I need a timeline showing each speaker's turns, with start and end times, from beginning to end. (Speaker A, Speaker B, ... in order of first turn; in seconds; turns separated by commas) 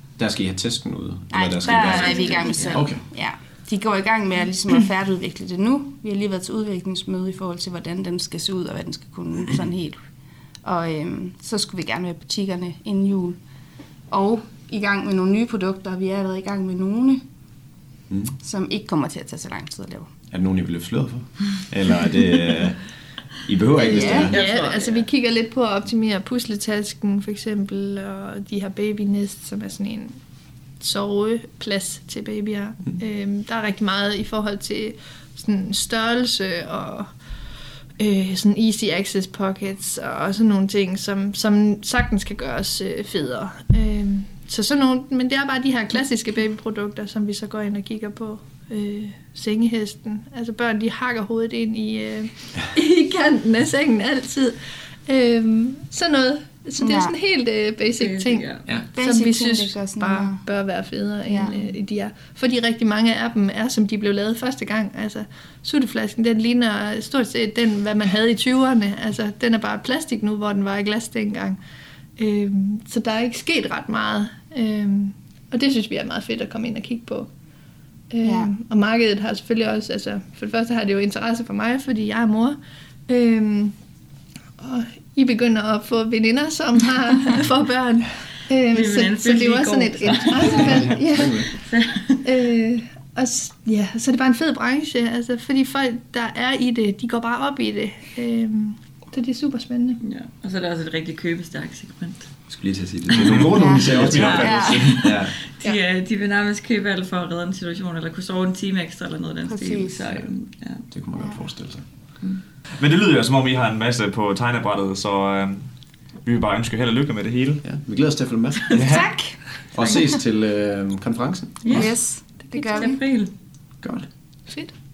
Speaker A: 0.2-3.0, Speaker B: 1.3-10.0, Speaker C: 1.6-3.0, Speaker B: 10.6-13.4, Speaker B: 14.1-17.2, Speaker A: 18.1-18.3, Speaker B: 18.4-20.1, Speaker A: 20.3-24.4, Speaker B: 23.8-24.4, Speaker C: 24.1-25.1, Speaker D: 24.3-30.1, Speaker D: 30.8-37.1, Speaker D: 38.0-71.6, Speaker B: 56.8-57.1, Speaker C: 58.0-58.9, Speaker B: 58.9-60.5, Speaker B: 61.2-61.6, Speaker D: 72.2-77.3, Speaker D: 78.1-82.6, Speaker B: 78.2-78.5, Speaker D: 83.1-83.7, Speaker D: 84.6-91.4, Speaker C: 88.7-92.3, Speaker A: 90.5-91.5, Speaker D: 92.2-100.0, Speaker C: 100.0-103.3, Speaker A: 102.5-105.5, Speaker E: 103.2-105.1, Speaker B: 103.5-105.0, Speaker C: 104.1-110.9, Speaker B: 109.5-110.2, Speaker A: 110.9-111.8, Speaker B: 111.2-111.4, Speaker C: 112.2-112.5, Speaker E: 112.8-115.7, Speaker E: 116.2-117.6, Speaker A: 117.6-118.8, Speaker E: 118.7-119.5, Speaker B: 118.8-120.1, Speaker A: 119.7-121.9, Speaker C: 121.6-123.3, Speaker B: 121.7-123.0, Speaker A: 123.8-124.1, Speaker D: 124.5-124.7